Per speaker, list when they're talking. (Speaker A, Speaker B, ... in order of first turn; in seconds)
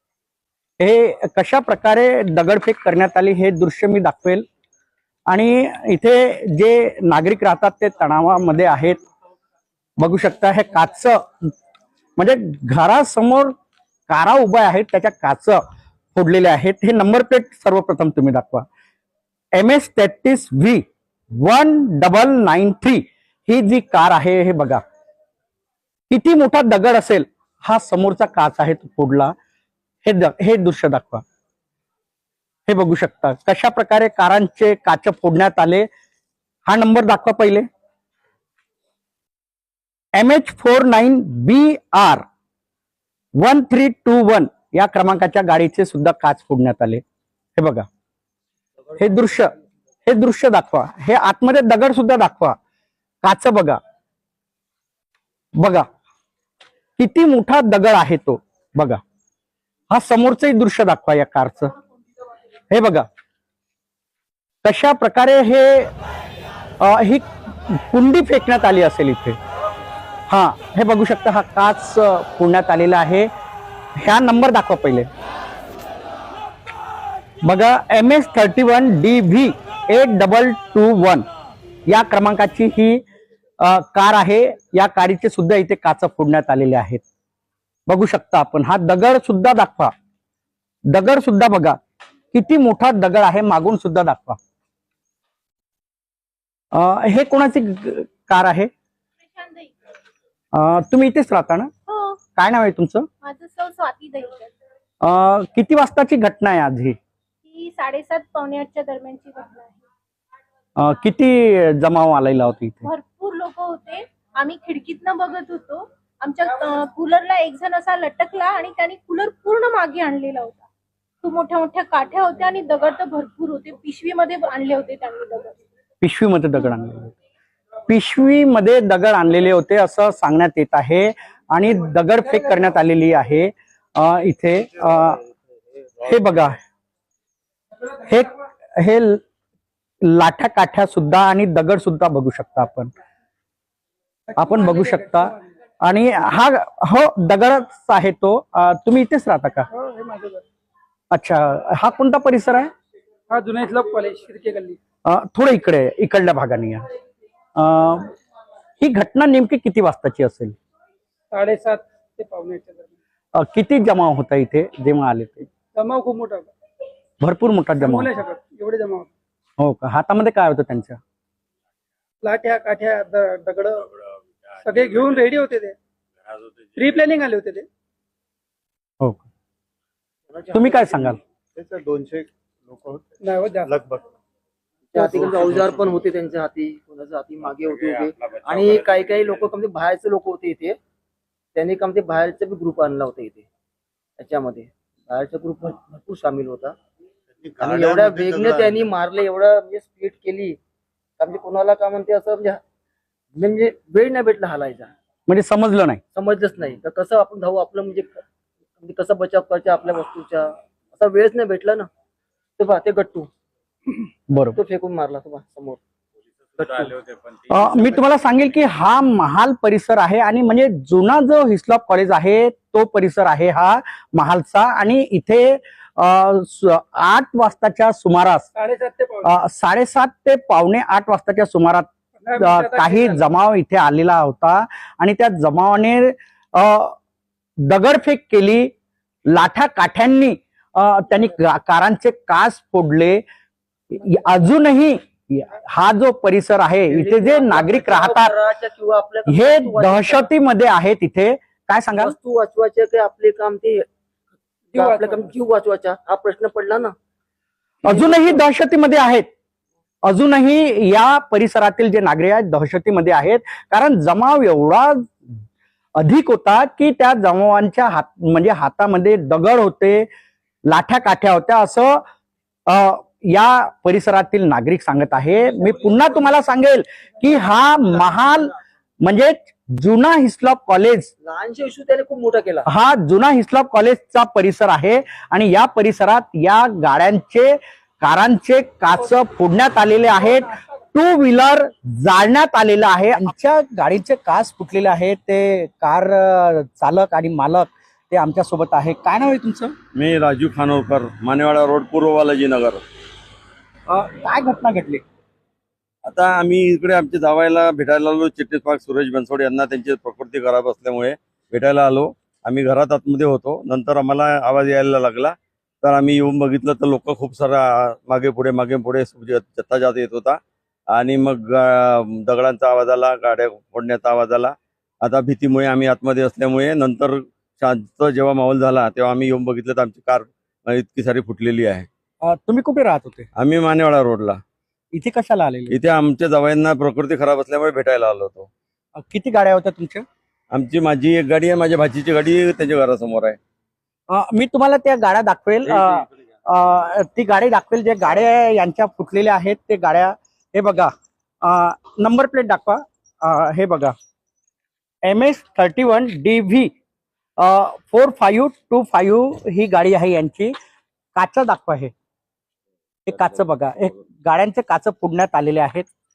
Speaker A: 0.8-4.4, 5.3-9.0, 10.0-11.2, 12.2-13.5, 14.1-15.6, 16.1-18.6, 19.6-20.8, 21.4-24.8, 26.1-29.3, 30.1-31.2, 32.7-35.9, 36.7-37.6, 40.2-42.2, 43.4-47.0, 47.6-47.9, 49.0-49.5, 50.1-52.6, 53.2-53.8, 55.6-55.9, 57.0-59.0, 59.9-61.7, 62.7-63.1, 64.6-65.9, 66.8-69.4, 70.3-73.3, 74.0-75.1, 77.4-81.2, 81.9-83.0, 83.6-87.0, 87.9-89.9, 90.9-91.8, 92.3-94.4, 96.7-98.7, 100.5-101.7, 102.4-103.1, 105.0-107.0, 110.8-112.9, 126.0-127.1, 127.9-135.2, 136.0-136.6, 138.1-139.2, 140.1-142.9, 144.4-149.7, 151.1-152.7, 155.1-156.8, 157.6-158.1, 158.8-160.6, 163.4-165.5, 167.2-168.1, 169.6-171.0, 179.0-179.2, 180.5-181.2, 205.3-206.0, 214.3-214.6, 217.5-228.5, 229.2-236.9, 237.7-238.7, 239.3-243.2, 243.9-248.3, 249.3-252.1, 257.9-259.3, 260.1-265.1, 266.0-270.1, 270.7-272.0, 272.7-278.5, 279.0-281.1, 282.7-299.7, 303.9-305.0, 332.2-333.3, 334.9-335.8, 338.9-340.1, 344.1-350.9, 351.4-353.9, 355.1-356.7, 357.4-360.5, 361.2-361.9, 363.1-365.9
Speaker B: 99.3-99.7, 101.9-102.2, 103.2-104.5, 107.5-109.8, 112.9-120.6, 121.2-125.6
Speaker C: 144.4-145.4, 149.7-150.4, 153.3-154.8, 161.3-162.9, 165.8-166.5, 167.8-169.1, 172.2-173.9, 174.6-175.8, 176.8-177.7, 183.2-183.7, 228.6-229.2, 232.2-233.2, 254.7-255.2
Speaker D: 180.3-181.1, 184.9-190.8, 191.6-193.4, 194.2-196.8, 197.6-200.6, 201.2-202.6, 203.3-204.9, 206.1-208.2, 208.8-211.9, 212.6-213.3, 214.5-215.8, 216.6-216.9, 246.9-250.3, 252.0-253.8, 254.7-256.9, 257.9-258.4, 281.2-282.7
Speaker E: 181.6-183.0, 183.7-184.0, 197.4-198.6
Speaker F: 299.9-302.8, 306.1-320.4, 320.9-331.9, 333.3-334.4, 335.7-338.5, 340.5-343.4